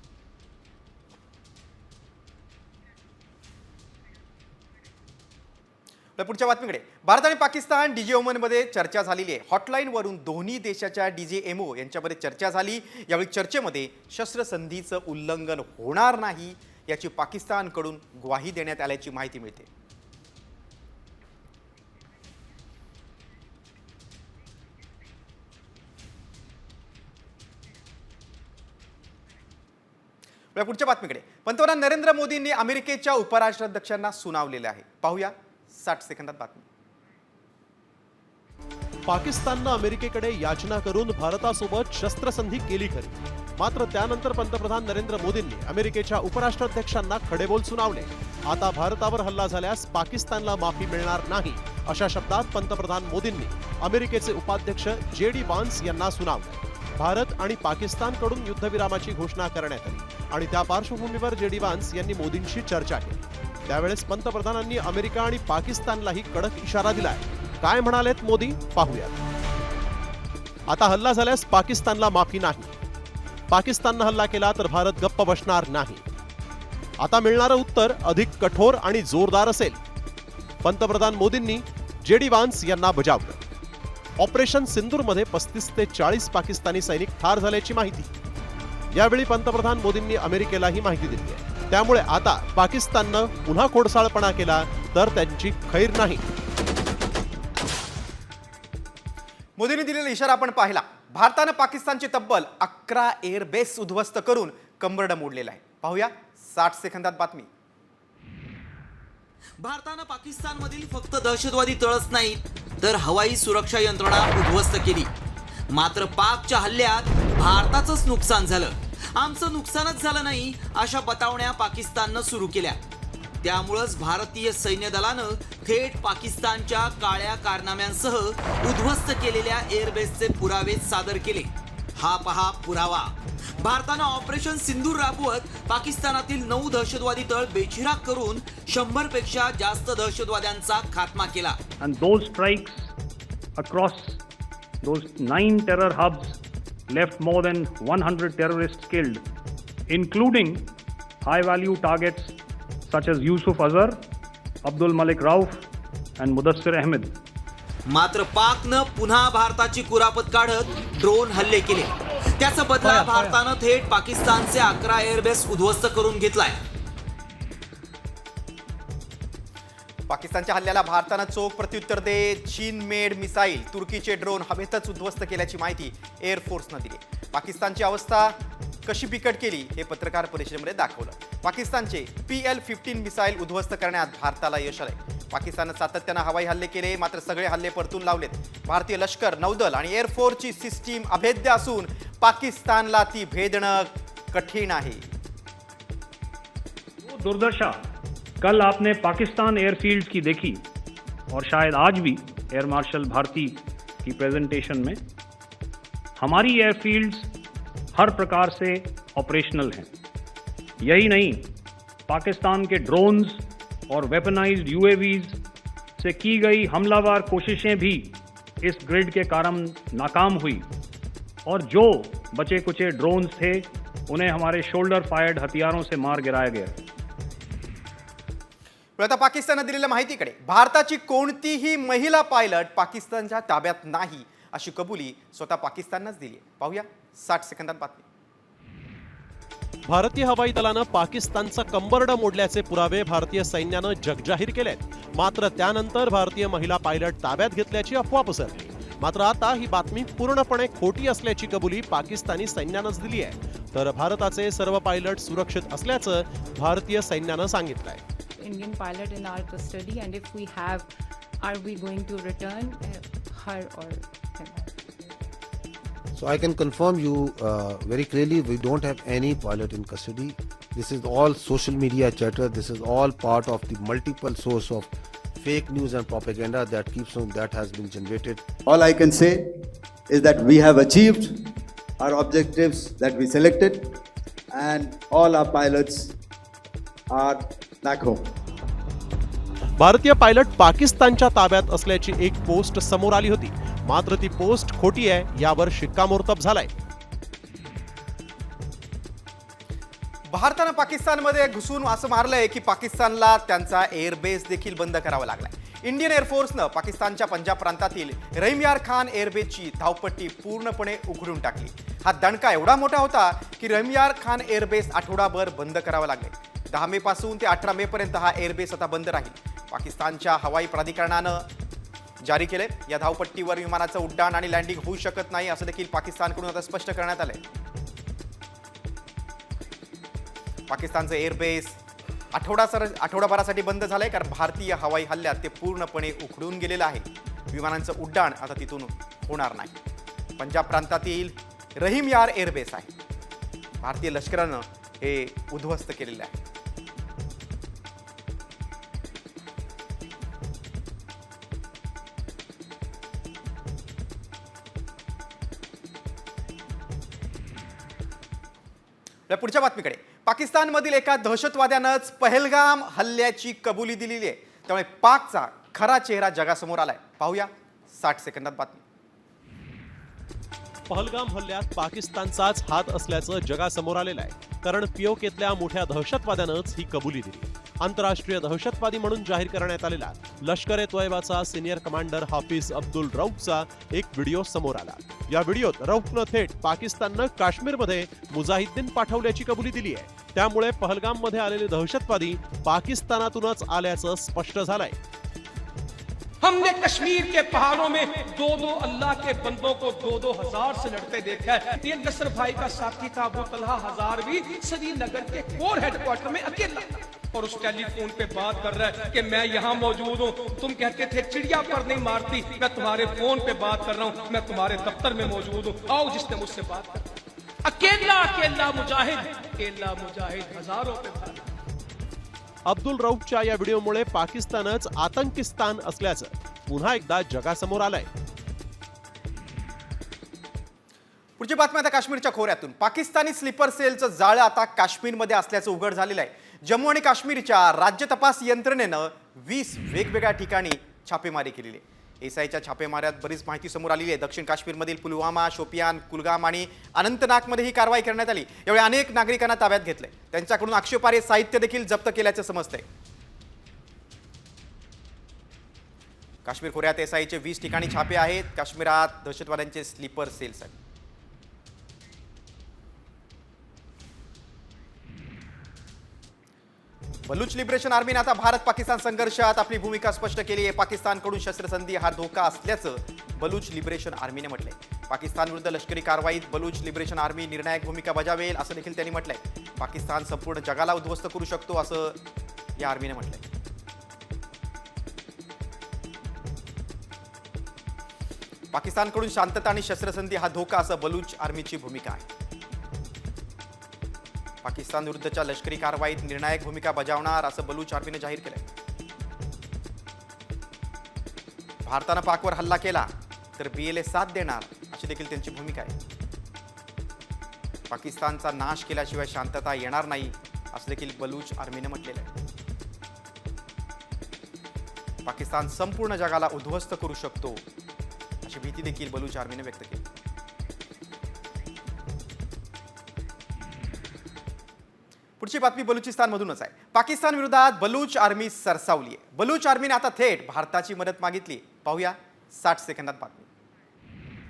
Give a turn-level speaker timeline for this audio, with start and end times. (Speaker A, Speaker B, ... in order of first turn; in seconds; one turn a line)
Speaker A: 6.2-19.7
Speaker A: 30.5-36.6
Speaker B: 39.1-69.2
Speaker B: 70.7-72.8
Speaker B: 73.5-76.0
Speaker B: 77.0-79.8
Speaker B: 80.6-83.4
Speaker B: 84.2-88.1
Speaker B: 88.9-96.2
Speaker A: 99.6-107.5
Speaker C: 109.6-115.1
Speaker C: 115.7-122.8
Speaker C: 123.4-141.6
Speaker D: 141.8-142.9
Speaker D: 143.6-144.2
Speaker D: 144.8-146.4
Speaker D: 146.9-149.2
Speaker D: 149.9-150.7
Speaker D: 151.2-152.3
Speaker D: 152.9-154.0
Speaker D: 154.6-155.6
Speaker D: 156.2-157.1
Speaker C: 157.9-166.6
Speaker A: 170.1-195.1
Speaker D: 197.0-197.8
Speaker D: 198.4-200.6
Speaker D: 201.3-205.0
Speaker D: 206.2-207.3
Speaker D: 207.9-209.9
Speaker D: 210.8-211.5
Speaker D: 212.1-215.4
Speaker D: 216.0-220.7
Speaker D: 221.4-226.8
Speaker A: 229.0-238.0
Speaker B: 239.8-258.0
Speaker E: 258.4-260.9
Speaker E: 261.4-264.7
Speaker F: 266.1-278.4
Speaker G: 278.7-279.6
Speaker G: 280.1-281.4
Speaker G: 282.0-284.0
Speaker G: 284.5-286.1
Speaker G: 287.1-288.3
Speaker B: 289.8-296.7
Speaker A: 300.3-321.4
Speaker A: 322.2-327.4
Speaker A: 330.7-331.8
Speaker A: 332.3-339.7
Speaker A: 340.4-342.9
Speaker A: 343.8-346.3
Speaker A: 359.3-368.8
Speaker B: 370.9-395.0
Speaker H: 396.4-417.1
Speaker H: 417.6-421.4
Speaker B: 422.6-428.1
Speaker A: 431.4-452.8
Speaker A: 456.4-460.7
Speaker A: 467.3-482.2
Speaker A: 482.8-483.4
Speaker A: 488.7-492.2
Speaker A: 494.6-498.6
Speaker A: 501.8-505.9
Speaker A: 507.9-512.3
Speaker A: 515.2-517.6
Speaker A: 518.4-520.0
Speaker A: 525.4-533.5